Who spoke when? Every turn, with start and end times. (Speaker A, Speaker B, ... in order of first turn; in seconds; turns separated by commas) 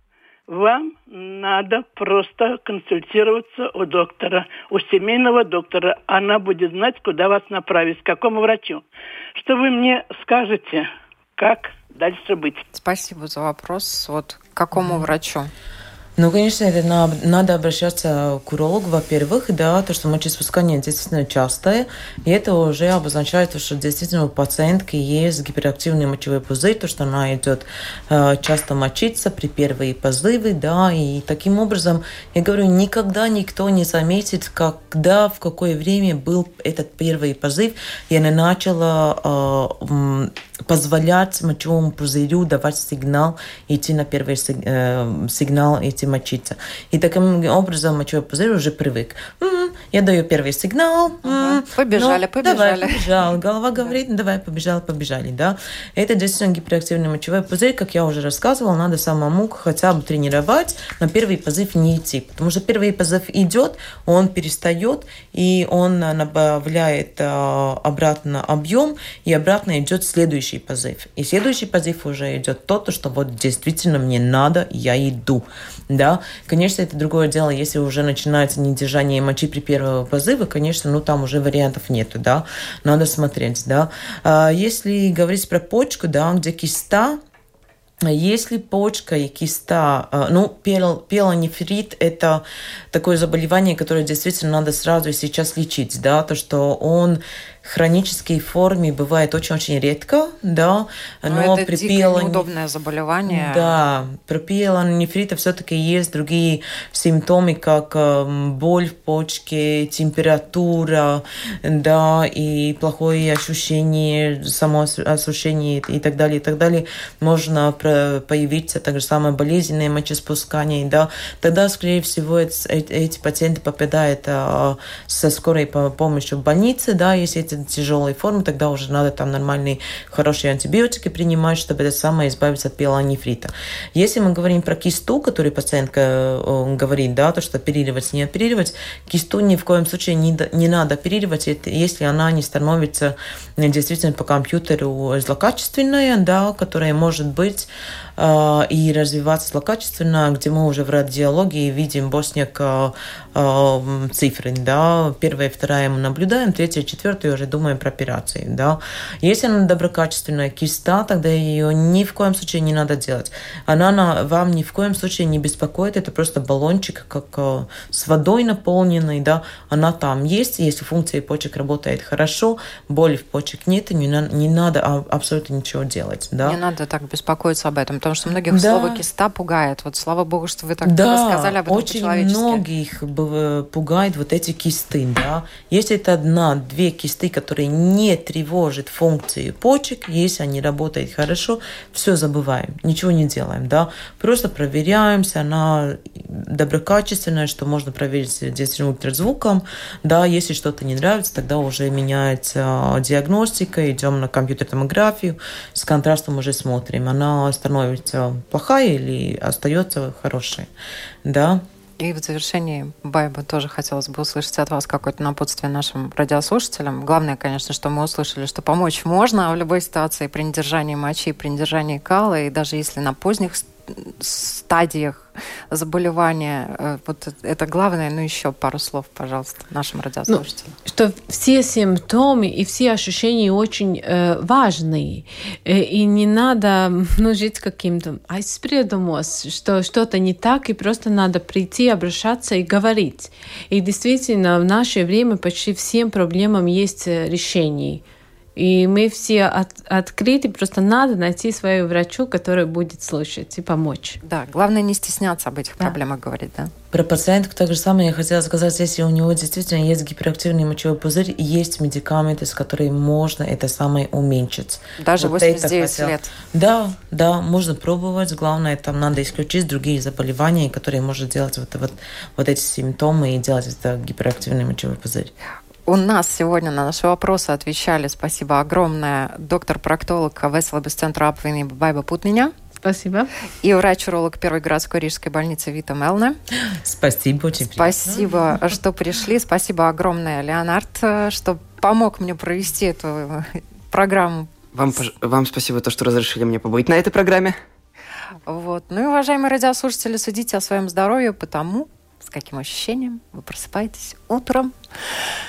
Speaker A: 0.5-12.6, Speaker B: 12.7-15.5, Speaker C: 14.7-15.1, Speaker C: 16.2-87.2, Speaker B: 51.2-53.1, Speaker C: 88.0-102.4, Speaker B: 101.2-103.7, Speaker C: 103.3-176.6, Speaker B: 176.4-182.6, Speaker C: 178.5-179.0, Speaker C: 180.8-210.7, Speaker C: 211.2-211.6, Speaker B: 212.0-230.7, Speaker D: 230.3-248.0, Speaker D: 248.6-254.2, Speaker B: 254.2-256.7, Speaker C: 256.9-275.3, Speaker B: 265.0-266.3, Speaker B: 275.9-282.5, Speaker D: 282.8-283.3, Speaker B: 283.6-286.4, Speaker C: 286.6-288.7, Speaker B: 287.7-294.7, Speaker E: 294.7-297.6, Speaker B: 298.5-304.7